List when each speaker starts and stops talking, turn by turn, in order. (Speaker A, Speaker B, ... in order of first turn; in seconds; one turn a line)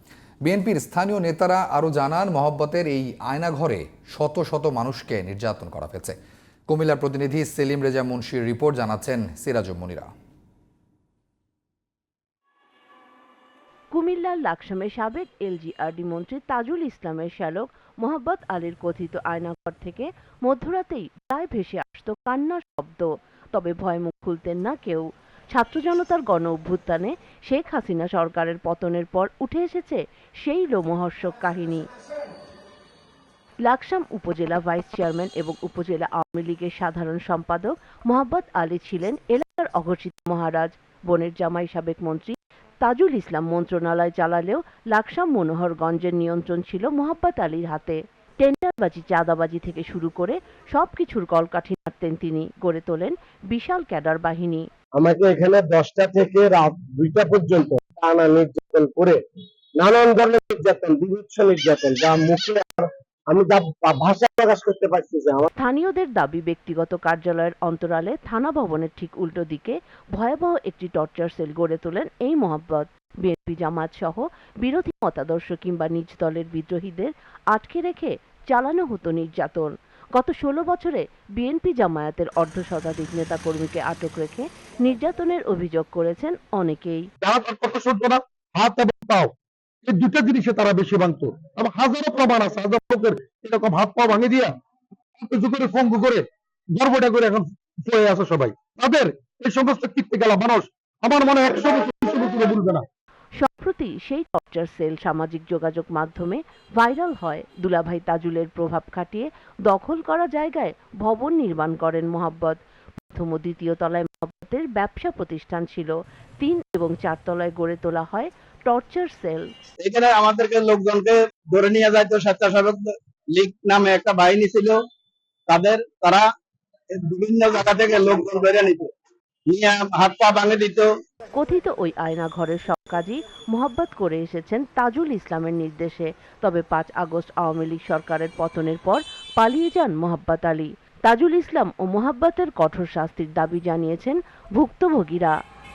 Speaker A: 0.5-6.2
Speaker A: 6.7-10.1
Speaker B: 13.9-31.9
Speaker B: 33.6-54.7
Speaker C: 55.0-59.2
Speaker C: 59.8-65.5
Speaker B: 65.6-87.1
Speaker D: 87.2-89.3
Speaker D: 89.8-94.5
Speaker D: 95.2-102.9
Speaker B: 103.4-112.6
Speaker B: 113.2-119.5
Speaker E: 119.8-124.8
Speaker E: 125.5-126.3
Speaker E: 126.9-128.9
Speaker E: 129.5-130.9
Speaker B: 131.3-145.3